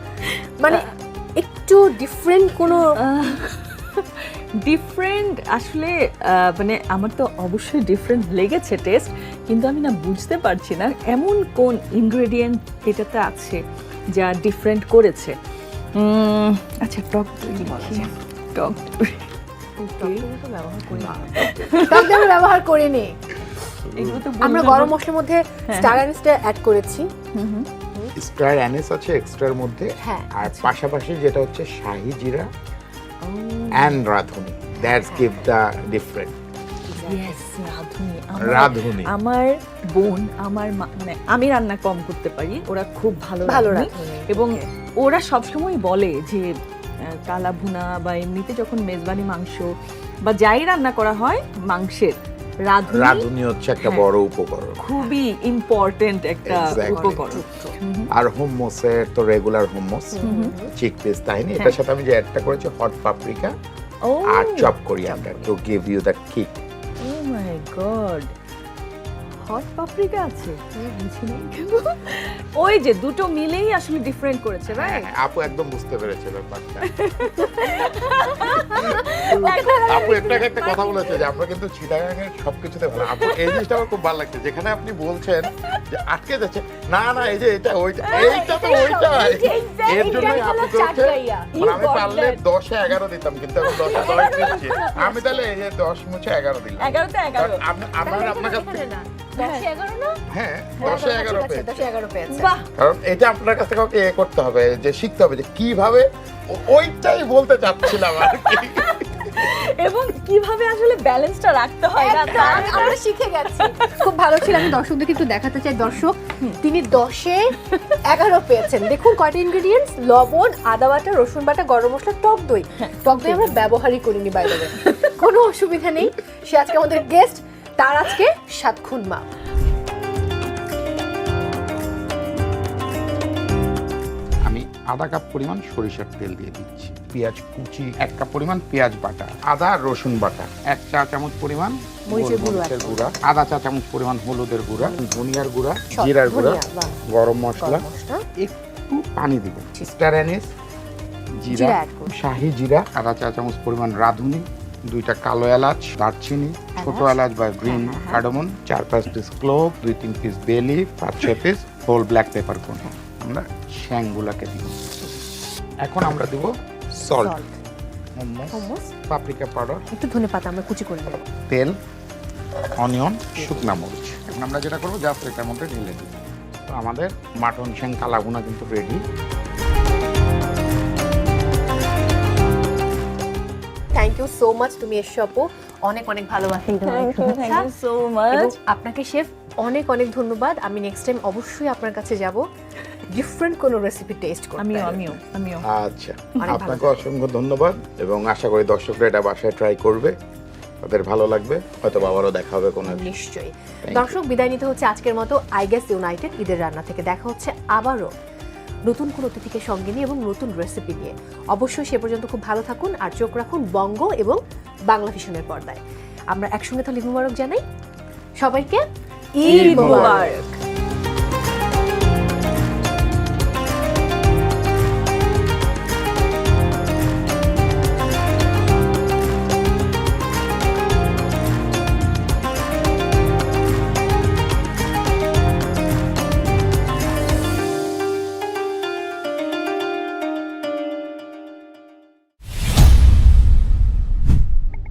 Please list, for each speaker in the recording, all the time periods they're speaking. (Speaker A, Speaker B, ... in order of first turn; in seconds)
Speaker A: 0.6-3.0, 17.5-18.1, 20.0-23.2, 24.4-27.1, 30.0-30.7, 34.8-35.5, 36.9-37.4, 43.5-44.6, 56.6-57.8, 60.1-60.7, 65.0-65.5, 74.7-75.1, 77.4-81.3, 88.5-91.5, 93.8-95.5, 98.0-100.2, 100.8-102.5, 112.0-129.3, 142.1-143.2, 144.8-145.1, 145.9-147.0, 147.6-148.2, 151.5-152.2, 156.8-158.2, 167.2-167.6, 168.5-168.9, 169.9-171.3, 173.3-173.8, 183.9-187.7, 188.3-192.4, 193.1-195.1, 196.4-197.1, 202.8-208.1, 208.9-217.6, 218.4-220.3
Speaker B: 3.0-13.6, 14.2-15.4, 15.9-20.2, 21.0-22.3, 23.8-25.0, 25.7-26.0, 27.3-27.7, 33.2-34.0, 37.0-49.7, 50.2-53.3, 53.8-54.1, 54.8-58.1, 60.2-60.5, 64.0-64.7, 67.0-68.3, 69.5-75.0, 76.8-80.3, 83.1-83.8, 88.0-90.7, 91.5-92.4, 93.6-94.9, 96.8-97.6, 99.4-99.7, 102.3-102.7, 108.0-113.0, 113.5-114.7, 117.7-118.0, 122.8-123.7, 124.6-124.9, 186.9-188.5, 194.6-195.7, 219.4-220.6
Speaker C: 20.9-21.9, 23.8-24.2, 28.2-32.5, 33.7-36.4, 38.4-39.1, 52.9-54.8, 56.5-57.3, 58.1-63.5, 64.3-66.6, 74.8-76.9, 79.9-98.9, 100.3-101.8, 102.8-109.5, 112.3-113.0, 134.4-147.8, 148.4-150.5, 151.4-164.8, 165.8-167.4, 168.2-169.8, 171.5-171.8, 172.8-179.0, 195.6-200.2, 200.8-203.1, 203.8-204.2, 219.5-220.3